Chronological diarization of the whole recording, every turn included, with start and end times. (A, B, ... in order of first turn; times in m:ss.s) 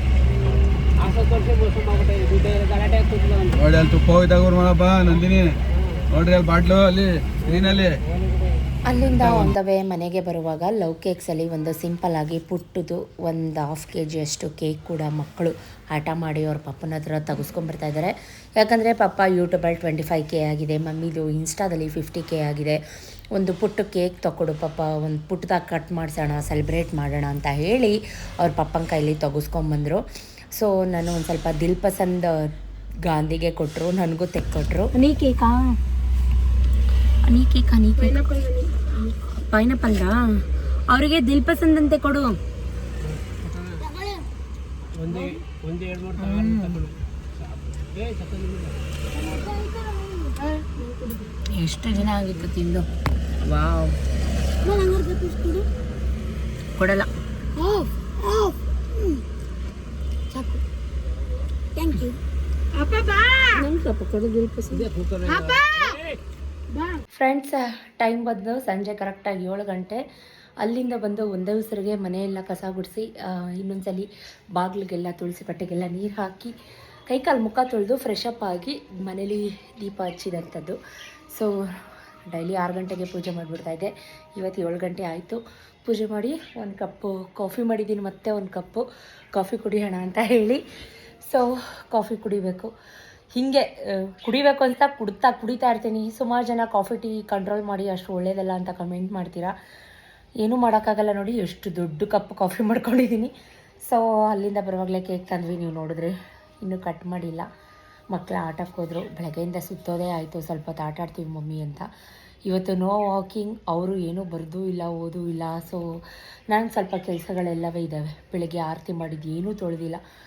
0:01.0-0:03.6 A
0:03.6-0:05.6 B
0:05.7-0:06.0 A
0:06.1-0:08.0 B
0:07.4-0:08.6 A
0:08.8-0:22.8 C
0:09.1-0:09.6 B
0:23.4-0:30.0 C
0:30.6-0:32.5 C
0:33.0-0:34.9 C
0:34.9-0:35.8 D
0:37.3-0:42.4 D
0:43.0-0:43.9 A
0:45.0-0:49.4 A
0:50.3-0:52.5 D
0:51.6-0:52.9 C
0:53.5-0:53.8 D
0:53.6-0:53.9 C
0:54.6-0:55.7 D
0:56.8-0:57.1 C
0:57.6-0:58.5 D
1:00.3-1:00.6 D
1:01.8-1:02.2 D
1:02.8-1:04.9 D
1:04.7-1:06.2 A
1:05.5-1:05.8 D
1:07.1-1:10.0 C
1:10.6-1:16.5 C
1:17.1-1:20.8 C
1:21.3-1:21.6 C
1:22.3-1:30.6 C
1:31.2-1:32.7 C
1:33.3-1:39.6 C
1:40.4-1:43.3 C
1:43.8-1:47.5 C
1:48.1-1:51.9 C
1:52.5-2:00.0 C